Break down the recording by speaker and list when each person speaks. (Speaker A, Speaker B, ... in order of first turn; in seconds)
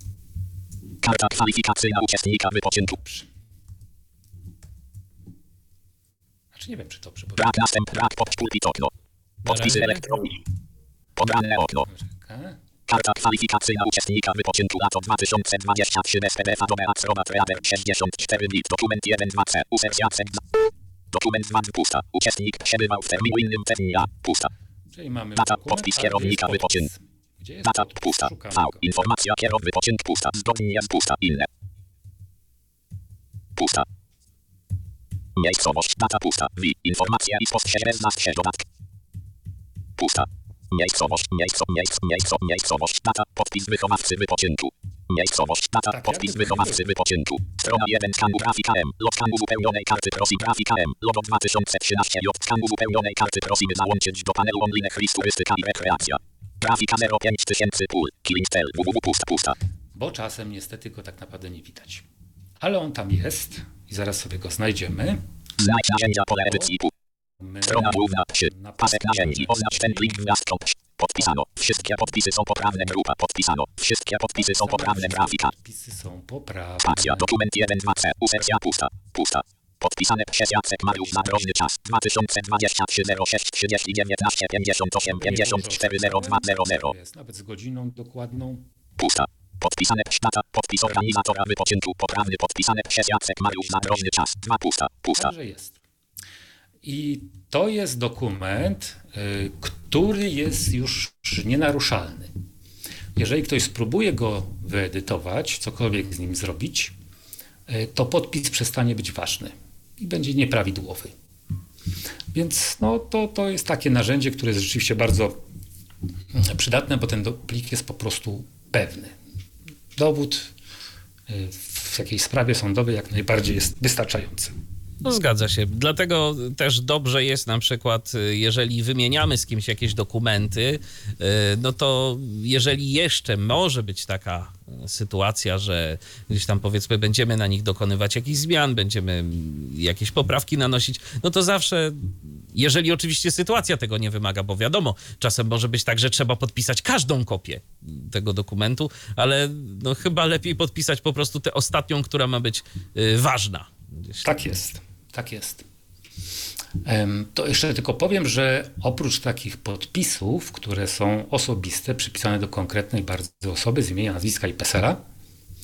Speaker A: 1.0-3.0, 7.4-8.9, 9.4-10.3, 11.2-11.9, 12.9-20.5, 21.1-24.5, 25.4-26.9, 27.7-31.5, 33.5-33.9, 35.4-38.6, 40.0-59.5, 65.6-66.9, 67.7-75.5, 76.8-86.9, 89.0-95.3
Speaker B: 2.9-3.2, 6.5-7.6, 11.8-12.6, 24.9-29.0, 45.9-46.9, 59.9-62.0, 62.6-65.2, 67.4-70.2, 74.4-77.3, 85.1-88.6, 95.1-95.8, 96.8-102.3, 103.2-106.9, 107.7-111.1, 112.3-115.4, 116.3-119.1, 120.0-120.5, 121.3-124.5, 154.2-155.6, 156.8-165.0
Speaker C: 9.4-10.2, 125.0-154.2